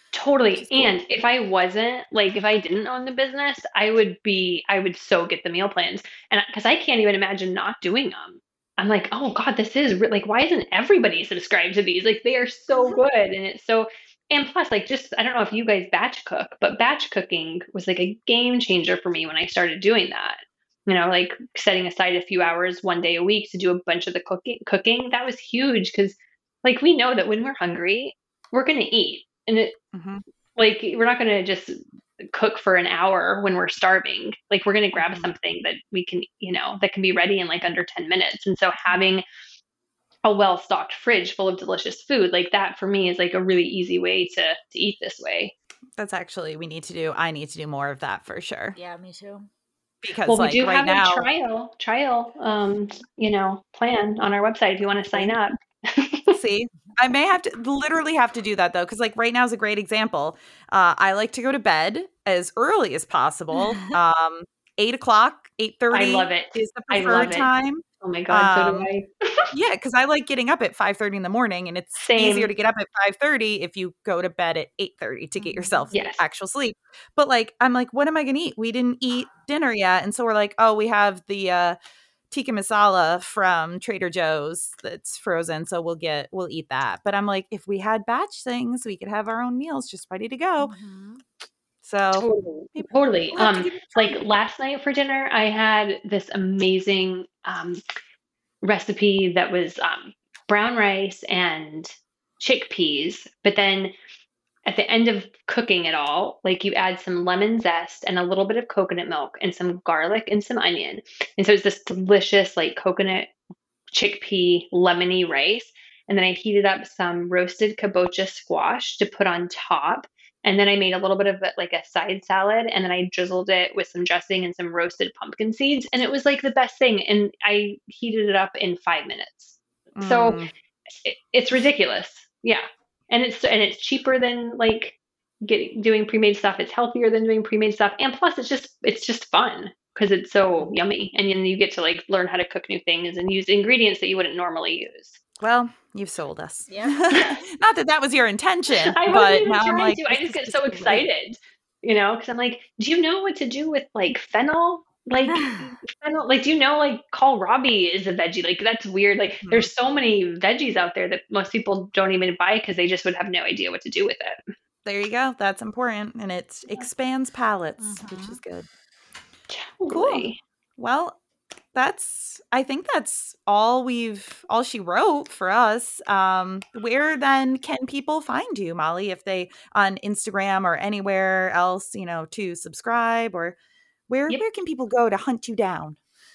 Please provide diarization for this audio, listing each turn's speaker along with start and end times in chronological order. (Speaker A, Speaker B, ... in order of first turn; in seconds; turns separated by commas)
Speaker A: 0.1-29.8, Speaker B: 0.6-1.0, Speaker B: 29.9-30.2, Speaker A: 30.6-31.8, Speaker A: 32.3-39.2, Speaker B: 35.0-35.3, Speaker A: 40.2-45.5, Speaker B: 46.0-48.8, Speaker C: 48.8-49.5, Speaker B: 50.0-51.3, Speaker A: 50.3-56.4, Speaker B: 56.3-68.9, Speaker A: 65.9-67.5, Speaker A: 68.0-69.5, Speaker B: 69.5-81.8, Speaker A: 72.0-72.5, Speaker C: 75.4-75.9, Speaker A: 75.9-76.2, Speaker B: 82.3-90.7, Speaker C: 90.6-91.2, Speaker B: 91.8-94.2, Speaker A: 92.2-97.8, Speaker A: 98.6-103.9, Speaker A: 104.7-113.3, Speaker A: 113.9-145.2, Speaker B: 130.0-130.5, Speaker B: 145.4-151.1, Speaker C: 146.7-146.9, Speaker A: 148.7-164.4, Speaker C: 155.3-155.7, Speaker B: 159.4-159.7, Speaker B: 164.8-168.7, Speaker C: 167.8-168.4, Speaker A: 169.5-170.4, Speaker B: 169.9-171.2, Speaker B: 171.7-183.6, Speaker B: 184.1-186.0